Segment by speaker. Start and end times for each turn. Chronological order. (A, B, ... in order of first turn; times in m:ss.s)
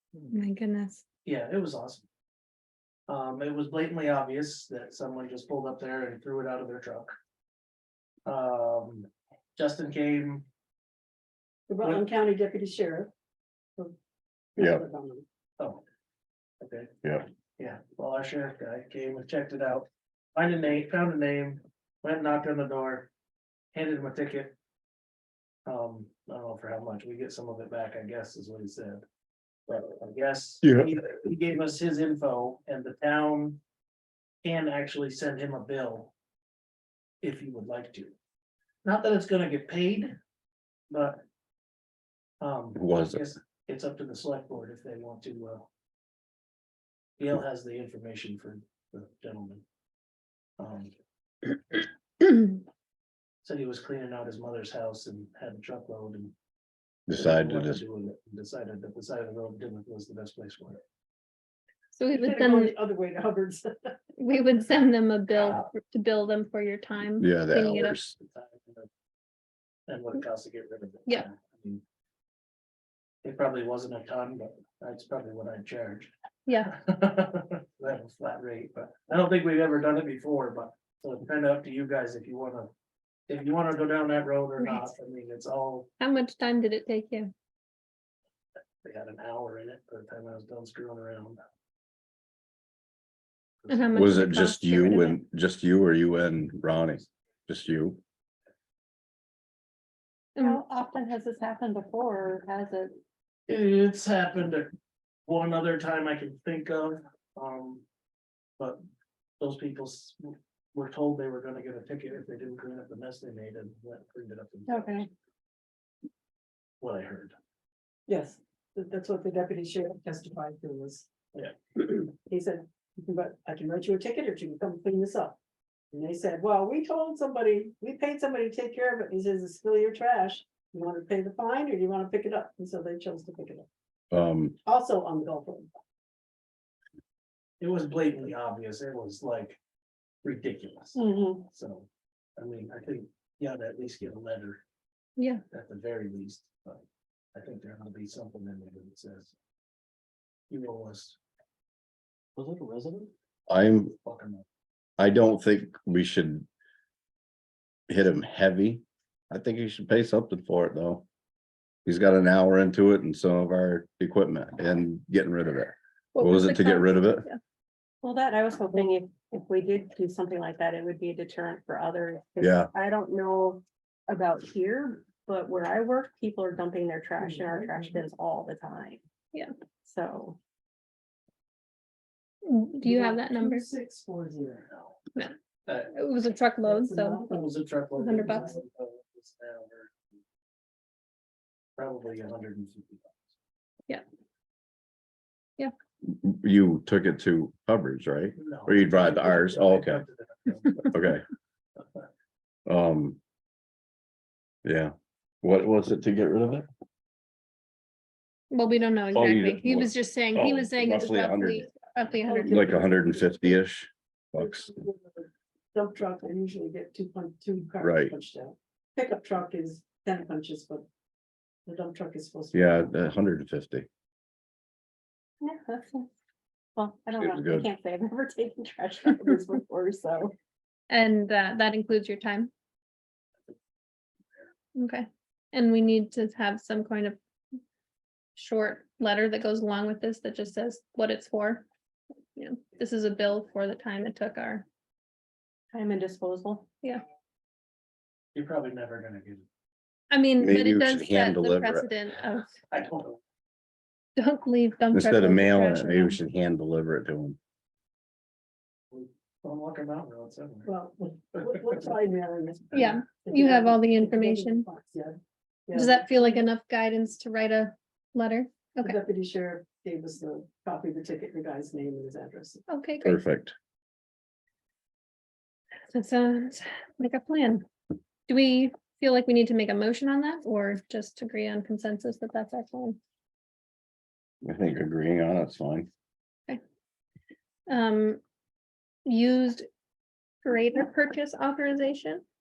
0:00.3-0:01.0 A
0:01.2-0:02.0 B
0:03.1-0:07.1 B
0:08.2-0:10.4 B
0:11.7-0:13.1 C
0:14.5-0:15.2 C
0:14.6-0:14.8 D
0:15.6-0:15.8 B
0:16.6-0:16.9 B
0:17.6-0:23.1 B
0:23.7-0:24.6 B
0:25.6-0:29.0 B
0:29.7-0:33.6 B
0:30.6-0:30.9 D
0:34.4-0:36.1 B
0:37.2-0:38.1 B
0:38.8-0:40.2 B
0:40.9-0:41.2 B
0:42.4-0:45.7 B
0:42.8-0:43.2 D
0:47.2-0:49.6 B
0:50.6-0:50.9 B
0:53.4-0:56.3 B
0:57.1-0:57.8 D
0:57.1-1:00.8 B
1:01.9-1:02.7 A
1:02.1-1:03.9 C
1:04.2-1:08.0 A
1:05.3-1:05.7 B
1:07.2-1:08.2 D
1:08.2-1:08.9 B
1:09.9-1:11.8 B
1:13.2-1:16.1 B
1:16.7-1:22.7 B
1:23.3-1:25.9 B
1:24.6-1:24.9 A
1:26.0-1:27.3 A
1:28.8-1:31.4 B
1:33.7-1:35.2 A
1:33.9-1:38.0 D
1:40.4-1:43.0 E
1:43.5-1:44.7 B
1:45.2-1:47.8 B
1:49.4-1:55.0 B
1:54.7-1:55.1 E
1:56.8-1:57.4 B
1:58.1-2:01.1 C
2:01.3-2:01.8 B
2:01.8-2:05.4 C
2:05.9-2:13.7 C
2:14.1-2:14.6 D
2:14.6-2:15.7 C
2:17.6-2:19.6 B
2:20.2-2:24.6 B
2:21.0-2:21.4 E
2:25.2-2:25.4 A
2:25.5-2:26.8 B
2:27.3-2:29.3 B
2:30.5-2:31.2 B
2:32.4-2:33.1 B
2:33.5-2:34.0 D
2:34.0-2:34.4 B
2:35.0-2:36.5 D
2:37.9-2:41.0 D
2:41.8-2:47.2 D
2:46.1-2:47.4 A
2:48.0-2:59.0 E
2:52.4-2:52.7 D
2:57.2-2:58.0 C
2:59.8-3:00.4 E
3:02.4-3:03.6 A
3:02.8-3:04.7 C
3:04.7-3:04.9 B
3:05.6-3:05.9 B
3:05.9-3:07.2 A
3:06.6-3:07.5 C
3:07.2-3:09.9 B
3:08.0-3:08.5 A
3:08.1-3:08.5 C
3:11.8-3:13.2 B
3:16.0-3:20.0 D
3:18.4-3:20.9 B
3:20.8-3:21.2 D
3:22.6-3:23.2 D
3:24.6-3:26.7 D
3:28.5-3:32.7 A
3:29.1-3:31.7 D
3:32.3-3:33.6 C
3:32.4-3:34.8 D
3:34.3-3:40.8 C
3:37.8-3:38.1 D
3:41.6-3:42.9 C
3:42.5-3:43.9 D
3:45.4-3:46.1 E
3:46.8-3:50.3 E
3:47.2-3:47.7 D
3:50.9-3:52.5 A
3:54.7-3:57.2 A
3:58.4-4:01.6 A
4:02.4-4:04.6 A
4:05.7-4:06.7 E
4:08.3-4:09.4 B
4:10.1-4:12.5 A
4:10.4-4:11.9 D
4:12.7-4:13.2 B
4:14.2-4:16.2 A
4:14.9-4:17.4 D
4:18.9-4:20.7 B
4:20.6-4:26.4 C
4:22.7-4:24.7 A
4:25.7-4:29.0 A
4:28.8-4:32.6 C
4:32.7-4:33.2 A
4:33.0-4:33.5 D
4:35.9-4:37.6 A
4:38.3-4:43.0 A
4:44.4-4:45.9 D
4:47.7-4:48.2 A
4:49.0-4:49.7 A
4:50.4-4:52.2 A